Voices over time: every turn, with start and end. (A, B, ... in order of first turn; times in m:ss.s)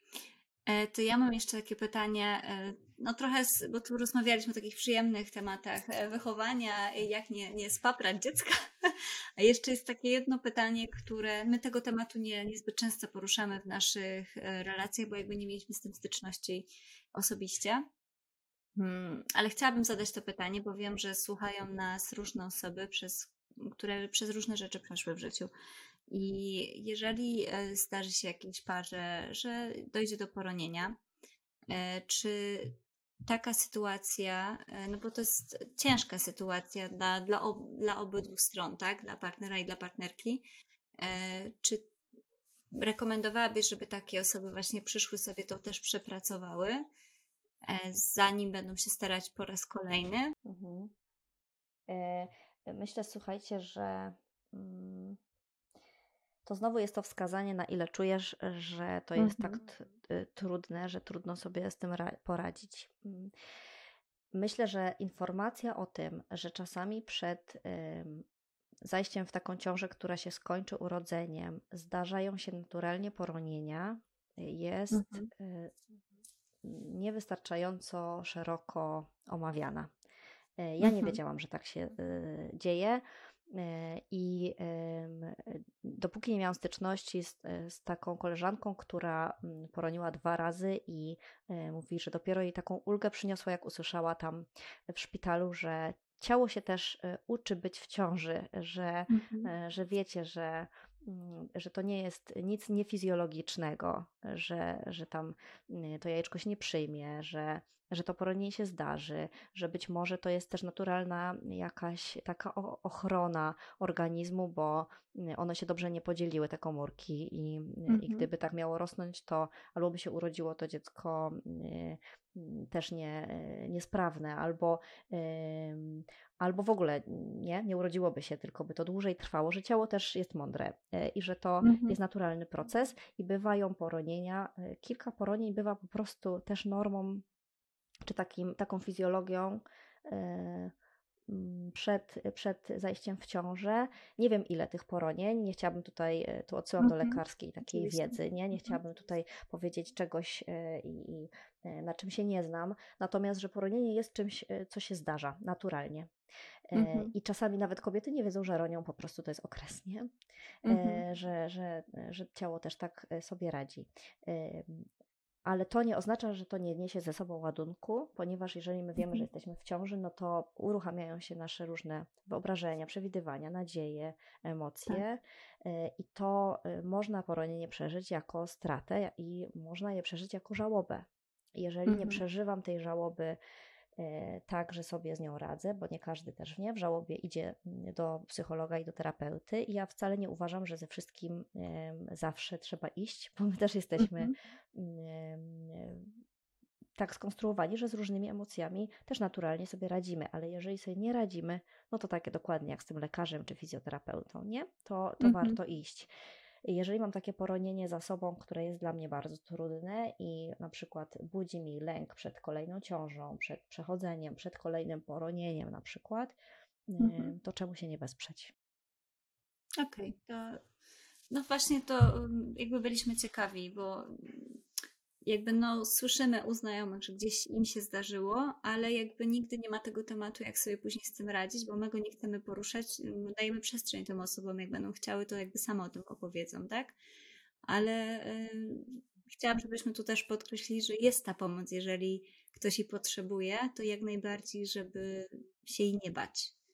0:00.7-0:17.8 A
0:18.8-0:25.5 A
0:26.1-0:31.0 A
0:31.7-0:40.4 A
0:41.0-0:41.9 A
0:42.7-0:46.8 A
0:47.6-0:50.3 A
0:50.4-0:50.9 B
0:51.9-0:55.2 B
0:56.4-1:03.3 B
0:59.2-0:59.7 A
1:04.3-1:08.2 B
1:08.8-1:15.8 B
1:14.9-1:15.3 A
1:16.6-1:19.9 B
1:20.6-2:17.2 B
1:20.8-1:21.2 A
1:39.1-1:39.5 A
1:57.9-1:58.3 A
2:11.6-2:12.0 A
2:18.0-2:20.7 B
2:21.3-2:36.1 B
2:26.8-2:28.8 A
2:36.7-2:40.1 B
2:36.7-2:37.1 A
2:40.6-2:41.0 A
2:40.6-2:44.9 B
2:45.4-3:03.4 B
2:49.0-2:49.2 A
3:01.9-3:02.2 A
3:04.0-3:16.1 B
3:14.0-3:14.3 A
3:17.0-3:26.1 B
3:25.2-3:25.6 A
3:26.6-3:36.4 B
3:36.9-3:38.5 B
3:37.0-3:37.3 A
3:39.8-3:40.6 A
3:41.3-3:44.6 A
3:45.2-3:57.0 A
3:57.6-4:06.5 A